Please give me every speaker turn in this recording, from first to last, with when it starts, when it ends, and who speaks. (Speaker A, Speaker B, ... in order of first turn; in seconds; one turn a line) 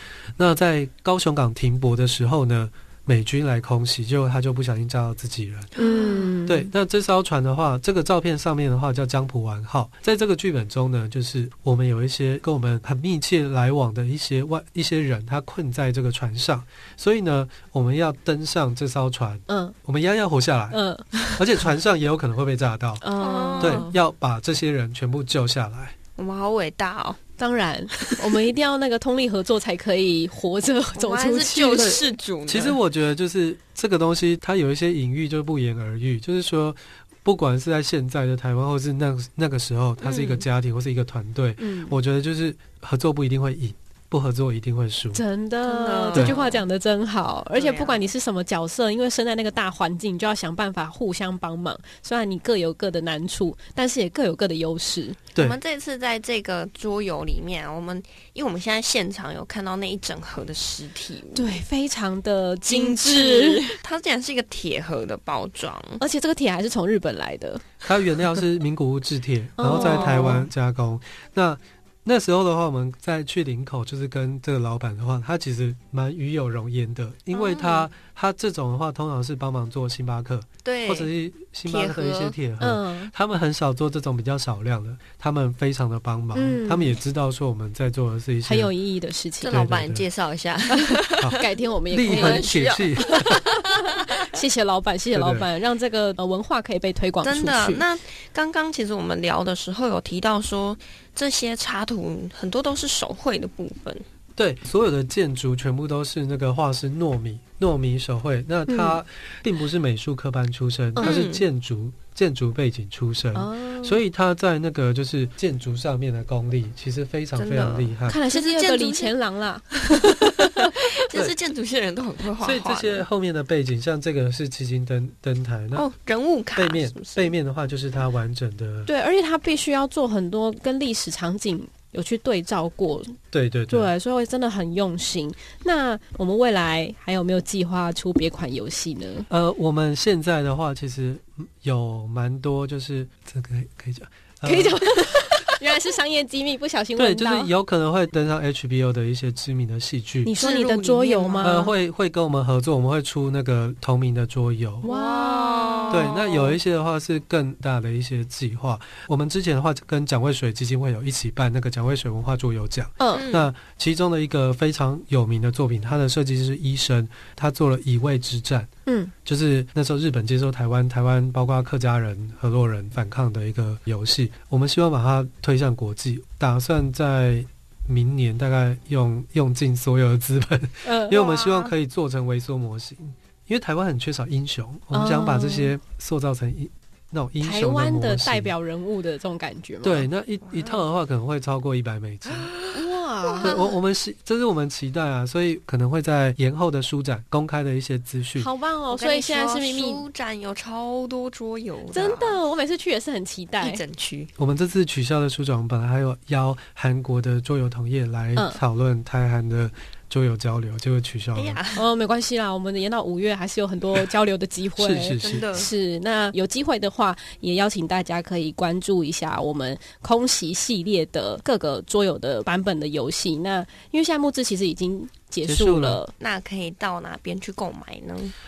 Speaker A: 0.4-5.7
Speaker B: 5.8-6.3
Speaker C: 5.8-6.7
Speaker A: 6.5-23.1
Speaker C: 19.5-19.8
Speaker C: 20.7-21.4
Speaker C: 23.0-23.9
Speaker B: 23.2-23.9
Speaker A: 23.6-25.9
Speaker B: 26.2-27.2
Speaker C: 27.4-32.0
Speaker B: 30.9-32.8
Speaker A: 31.8-45.2
Speaker B: 40.0-40.5
Speaker C: 41.6-42.0
Speaker C: 45.1-55.2
Speaker B: 45.6-46.6
Speaker B: 47.5-48.1
Speaker B: 55.4-61.6
Speaker C: 61.3-63.8
Speaker B: 62.6-66.0
Speaker C: 66.0-67.7
Speaker A: 67.8-88.7
Speaker C: 69.6-70.5
Speaker B: 77.3-77.9
Speaker B: 80.6-81.1
Speaker B: 81.6-82.3
Speaker C: 82.6-83.1
Speaker C: 86.3-87.0
Speaker C: 88.4-89.6
Speaker B: 89.4-91.4
Speaker A: 89.5-90.0
Speaker C: 90.8-92.6
Speaker A: 91.2-93.4
Speaker B: 92.0-94.1
Speaker C: 93.3-97.8
Speaker A: 95.1-95.5
Speaker B: 97.2-104.0
Speaker A: 104.4-118.2
Speaker C: 108.7-109.0
Speaker C: 111.0-111.2
Speaker B: 111.0-111.4
Speaker C: 113.3-114.0
Speaker B: 117.3-119.1
Speaker C: 118.1-120.9
Speaker B: 119.7-123.0
Speaker A: 122.4-125.9
Speaker B: 125.7-127.3
Speaker A: 126.5-128.9
Speaker C: 128.9-133.2
Speaker A: 133.3-133.9
Speaker C: 133.7-139.3
Speaker A: 139.3-145.2
Speaker C: 144.4-147.5
Speaker A: 146.9-150.3
Speaker C: 150.2-151.7
Speaker B: 150.4-151.6
Speaker A: 151.4-154.9
Speaker C: 154.8-156.2
Speaker B: 154.8-156.5
Speaker A: 155.9-168.7
Speaker C: 163.0-163.3
Speaker B: 163.1-163.5
Speaker C: 168.8-169.1
Speaker A: 169.2-188.5
Speaker C: 180.8-181.3
Speaker B: 181.1-181.7
Speaker C: 184.9-185.7
Speaker C: 187.4-190.1
Speaker A: 189.8-192.5
Speaker B: 190.4-190.8
Speaker B: 192.3-193.8
Speaker C: 192.7-193.6
Speaker A: 193.4-198.5
Speaker C: 198.4-200.0
Speaker B: 198.9-202.4
Speaker C: 201.9-203.8
Speaker B: 203.6-204.3
Speaker A: 204.4-211.6
Speaker C: 208.3-208.6
Speaker B: 211.3-211.8
Speaker C: 211.7-226.1
Speaker A: 214.8-215.5
Speaker B: 215.2-215.7
Speaker A: 225.4-226.0
Speaker B: 226.2-228.3